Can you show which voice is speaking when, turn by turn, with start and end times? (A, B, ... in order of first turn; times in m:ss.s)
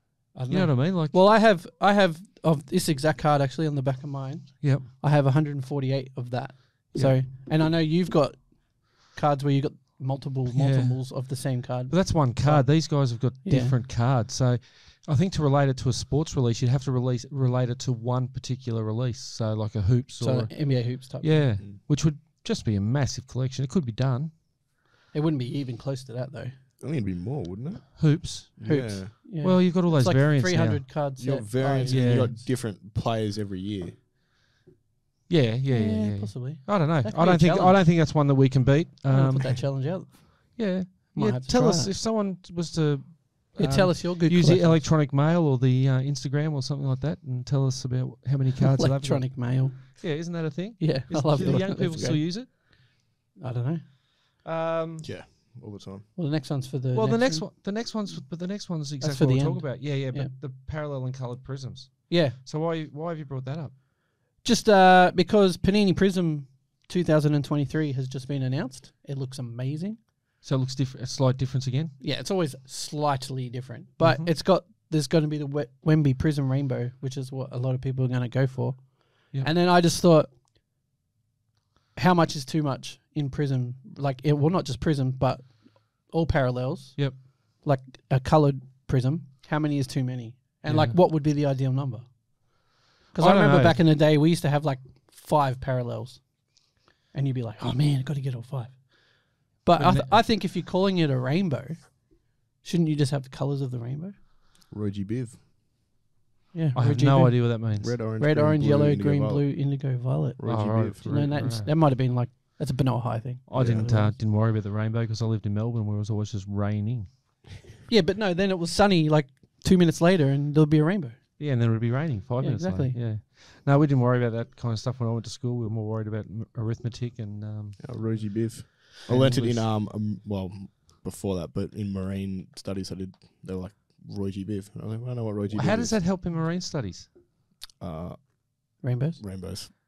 0:00.3-0:13.8 A
0:00.5-0:01.2 B
0:04.6-0:04.9 B
0:06.9-0:07.2 B
0:10.5-0:24.3 B
0:20.2-0:21.5 A
0:25.1-0:26.6 A
0:26.8-0:29.1 C
0:28.0-0:30.9 B
0:28.6-0:32.3 A
0:31.2-0:34.0 C
0:31.6-0:32.4 B
0:35.3-0:39.8 B
0:35.7-0:37.9 A
0:39.1-0:41.9 A
0:40.6-0:52.5 B
0:43.6-0:44.9 A
0:48.8-0:52.8 A
0:53.4-0:53.8 A
0:54.4-0:55.1 B
0:55.0-0:56.1 C
0:56.2-0:57.5 A
0:56.9-1:03.8 B
0:59.0-1:00.3 A
1:02.1-1:02.4 A
1:04.4-1:10.0 A
1:10.4-1:11.9 B
1:12.0-1:20.3 A
1:14.0-1:14.3 B
1:22.0-1:32.6 A
1:30.6-1:31.0 B
1:33.1-1:44.2 A
1:33.2-1:33.8 B
1:39.8-1:40.2 B
1:44.7-1:45.4 C
1:46.5-1:54.2 A
1:46.8-1:48.0 B
1:47.8-1:49.6 C
1:50.4-1:51.0 C
1:50.4-1:51.7 B
1:53.5-1:57.1 B
1:53.6-1:54.0 C
1:57.9-2:01.7 A
2:01.4-2:08.3 B
2:02.4-2:03.0 A
2:07.8-2:16.0 C
2:09.0-2:09.7 B
2:15.5-2:17.1 B
2:17.8-2:19.7 C
2:18.8-2:19.2 A